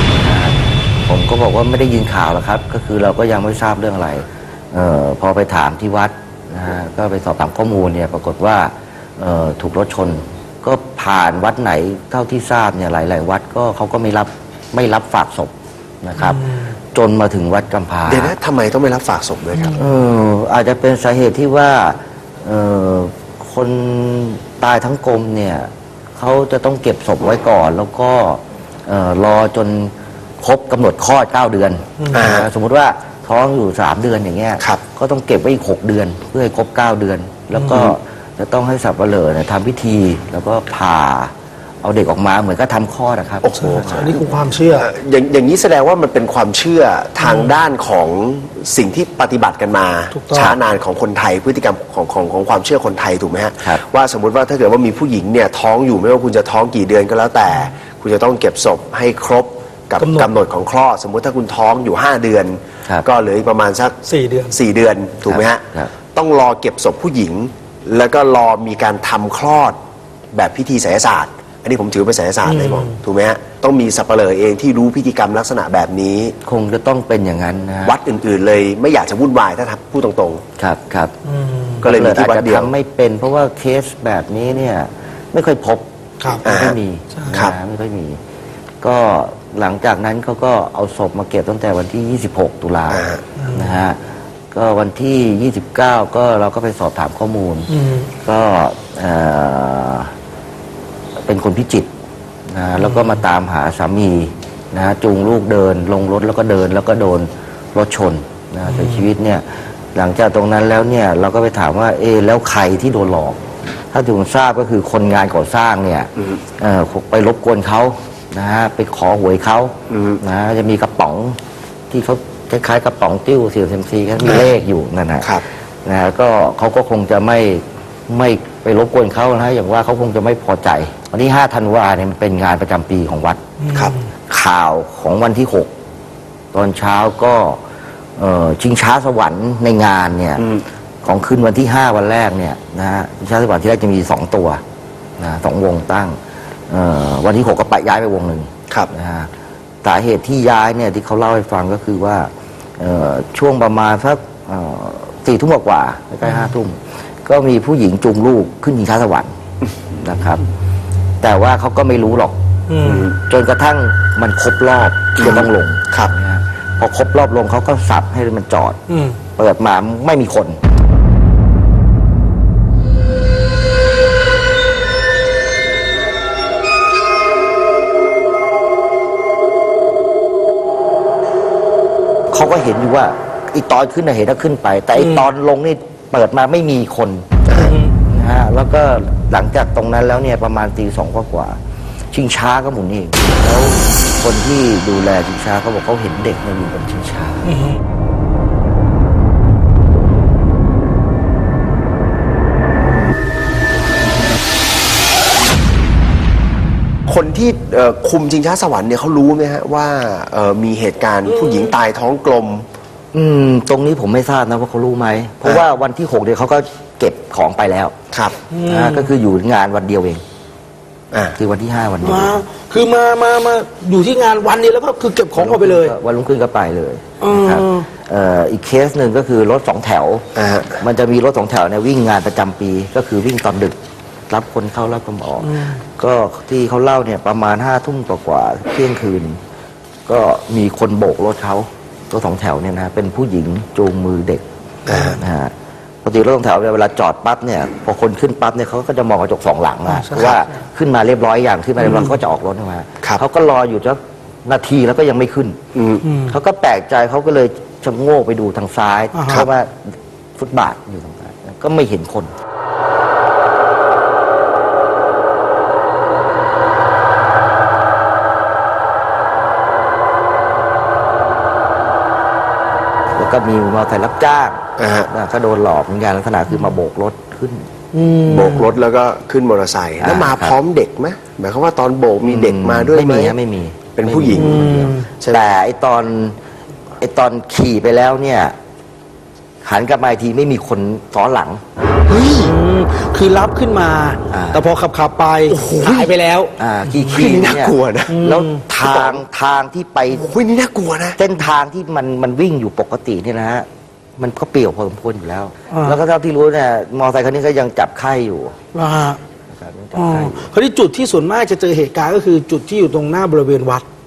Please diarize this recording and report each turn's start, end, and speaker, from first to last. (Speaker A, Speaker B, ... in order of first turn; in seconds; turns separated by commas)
Speaker A: 0.2-18.3, Speaker B: 18.1-19.8, Speaker A: 19.7-41.3, Speaker B: 32.1-32.5, Speaker A: 41.8-44.5, Speaker B: 43.4-44.2, Speaker C: 43.8-44.9, Speaker B: 44.7-64.0, Speaker C: 50.2-50.5, Speaker C: 60.0-60.2, Speaker C: 64.0-64.5, Speaker B: 64.5-69.8, Speaker A: 65.2-65.9, Speaker B: 70.3-76.3, Speaker C: 72.5-72.9, Speaker A: 76.4-78.0, Speaker B: 77.8-80.4, Speaker A: 80.6-81.1, Speaker C: 81.2-81.8, Speaker A: 81.8-88.2, Speaker B: 81.8-82.7, Speaker B: 86.4-86.8, Speaker A: 88.8-94.0, Speaker B: 92.9-93.2, Speaker C: 93.4-93.7, Speaker A: 94.5-100.1, Speaker C: 97.7-98.1, Speaker A: 101.2-101.9, Speaker A: 102.5-113.4, Speaker A: 113.9-121.4, Speaker B: 119.9-120.2, Speaker A: 121.9-133.4, Speaker C: 133.6-133.9, Speaker A: 134.3-135.7, Speaker A: 136.5-137.6, Speaker A: 138.2-140.5, Speaker B: 140.4-140.6, Speaker A: 141.0-144.6, Speaker A: 145.2-146.2, Speaker A: 146.7-149.3, Speaker A: 149.8-159.3, Speaker A: 160.0-160.4, Speaker A: 161.2-162.3, Speaker C: 162.7-163.1, Speaker B: 162.8-163.2, Speaker A: 163.2-168.8, Speaker B: 165.2-166.1, Speaker C: 168.9-169.2, Speaker A: 169.3-170.6, Speaker A: 182.3-191.6, Speaker B: 187.5-187.8, Speaker A: 192.1-197.5, Speaker B: 207.1-212.7, Speaker A: 213.1-217.9, Speaker C: 218.5-219.1, Speaker A: 218.6-220.2, Speaker B: 221.1-221.4, Speaker A: 221.3-222.4, Speaker C: 222.0-225.9, Speaker A: 225.3-230.2, Speaker C: 227.2-227.9, Speaker B: 230.3-230.8, Speaker A: 230.8-233.8, Speaker A: 234.3-239.4, Speaker C: 235.5-235.8, Speaker A: 240.1-245.5, Speaker B: 244.9-245.2, Speaker A: 246.0-255.6, Speaker C: 249.9-250.4, Speaker B: 255.7-256.1, Speaker C: 256.1-256.4, Speaker A: 256.2-259.7, Speaker C: 259.1-259.4, Speaker A: 260.4-262.3, Speaker A: 273.1-277.7, Speaker B: 274.8-275.1, Speaker C: 277.9-278.6, Speaker B: 278.2-283.4, Speaker A: 280.0-280.5, Speaker A: 282.3-286.4, Speaker B: 283.9-284.6, Speaker C: 284.4-285.0, Speaker B: 285.1-285.4, Speaker A: 287.0-288.5, Speaker A: 289.6-291.6, Speaker B: 292.1-292.5, Speaker C: 292.1-296.6, Speaker A: 294.3-294.6, Speaker B: 295.5-295.9, Speaker A: 295.8-300.3, Speaker B: 297.0-298.2, Speaker C: 298.1-298.6, Speaker B: 298.8-299.2, Speaker B: 300.2-301.2, Speaker A: 301.2-308.6, Speaker C: 305.7-306.0, Speaker C: 308.7-309.2, Speaker A: 309.5-310.5, Speaker C: 309.9-313.9